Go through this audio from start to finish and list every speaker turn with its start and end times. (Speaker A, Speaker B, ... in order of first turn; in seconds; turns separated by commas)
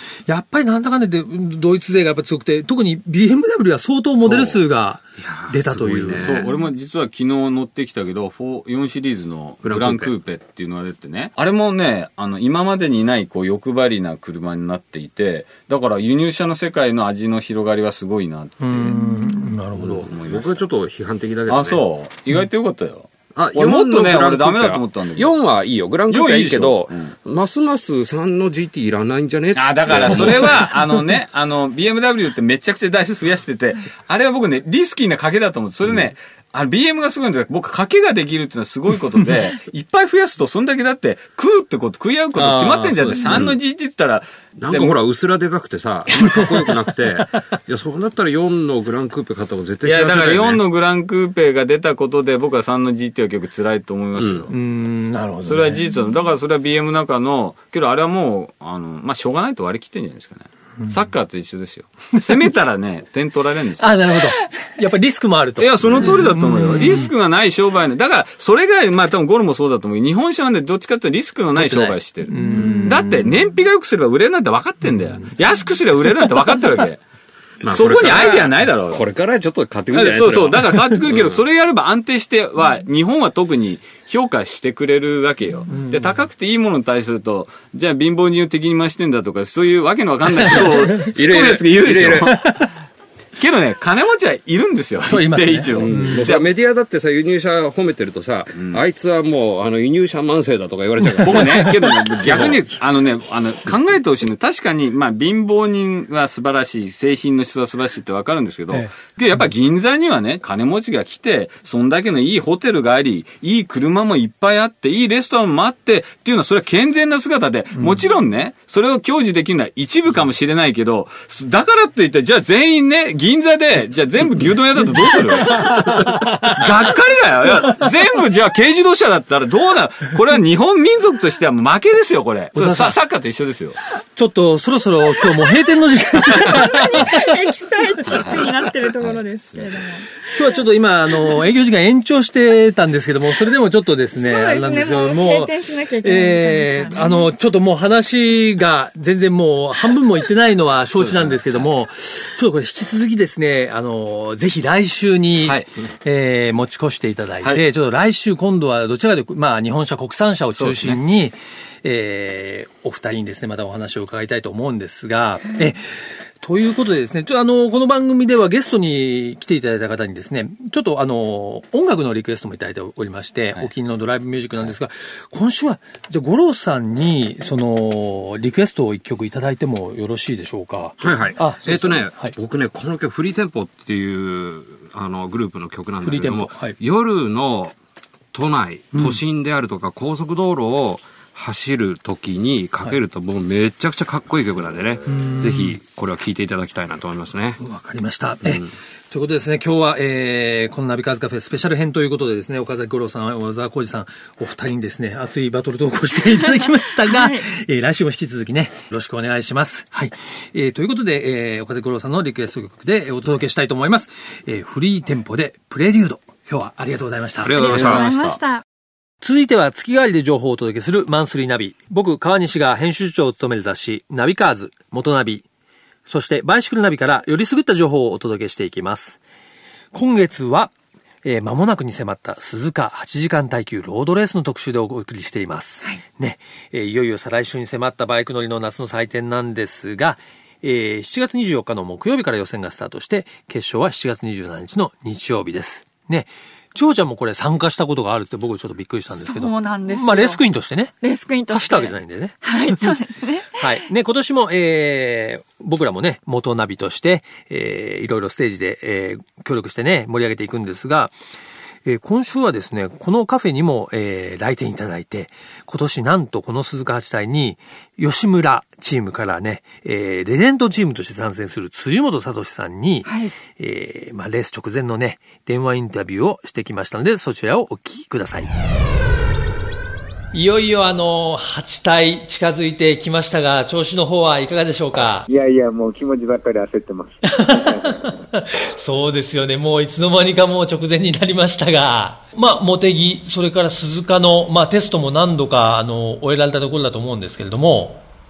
Speaker A: 0.3-6.4, Speaker B: 4.2-4.6, Speaker C: 5.2-6.5, Speaker B: 6.1-18.9, Speaker C: 9.6-10.1, Speaker A: 18.6-20.1, Speaker D: 18.9-19.5, Speaker C: 19.8-21.8, Speaker B: 20.1-20.4, Speaker B: 21.5-25.4, Speaker C: 23.3-30.8, Speaker B: 26.1-27.1, Speaker B: 29.5-45.0, Speaker A: 42.4-43.5, Speaker C: 43.3-43.5, Speaker C: 44.6-50.6, Speaker B: 49.8-54.5, Speaker C: 54.2-54.5, Speaker A: 54.5-55.9, Speaker B: 55.4-64.2, Speaker A: 63.8-67.1, Speaker B: 65.6-77.0, Speaker A: 71.5-73.2, Speaker D: 72.5-72.9, Speaker C: 77.6-81.4, Speaker B: 77.7-79.0, Speaker B: 79.9-92.4, Speaker A: 85.7-86.1, Speaker A: 90.4-91.1, Speaker C: 90.4-92.4, Speaker A: 92.2-92.7, Speaker B: 93.4-96.5, Speaker A: 95.0-96.3, Speaker C: 95.7-102.6, Speaker B: 98.5-98.8, Speaker A: 101.1-101.7, Speaker B: 101.2-133.8, Speaker A: 125.3-127.0, Speaker A: 127.5-127.8, Speaker A: 132.5-132.9, Speaker A: 134.2-138.3, Speaker D: 136.3-140.3, Speaker B: 138.1-138.5, Speaker A: 140.3-165.9, Speaker D: 144.1-147.3, Speaker B: 150.9-151.7, Speaker B: 155.4-155.7, Speaker B: 160.5-161.0, Speaker A: 166.4-182.3, Speaker C: 181.0-187.7, Speaker A: 186.0-186.8, Speaker C: 188.3-197.6, Speaker A: 188.9-189.2, Speaker A: 195.1-195.8, Speaker A: 197.6-217.8, Speaker D: 207.1-207.5, Speaker C: 217.4-218.3, Speaker D: 217.5-218.6, Speaker B: 217.8-218.3, Speaker A: 219.2-225.4, Speaker A: 226.1-229.2, Speaker A: 229.9-230.7, Speaker A: 231.2-250.9, Speaker D: 249.2-250.4, Speaker D: 251.0-253.6, Speaker A: 251.5-253.0, Speaker A: 253.5-261.1, Speaker A: 261.8-278.5, Speaker D: 273.0-273.3, Speaker A: 280.3-285.3, Speaker E: 285.3-288.2, Speaker A: 287.2-298.0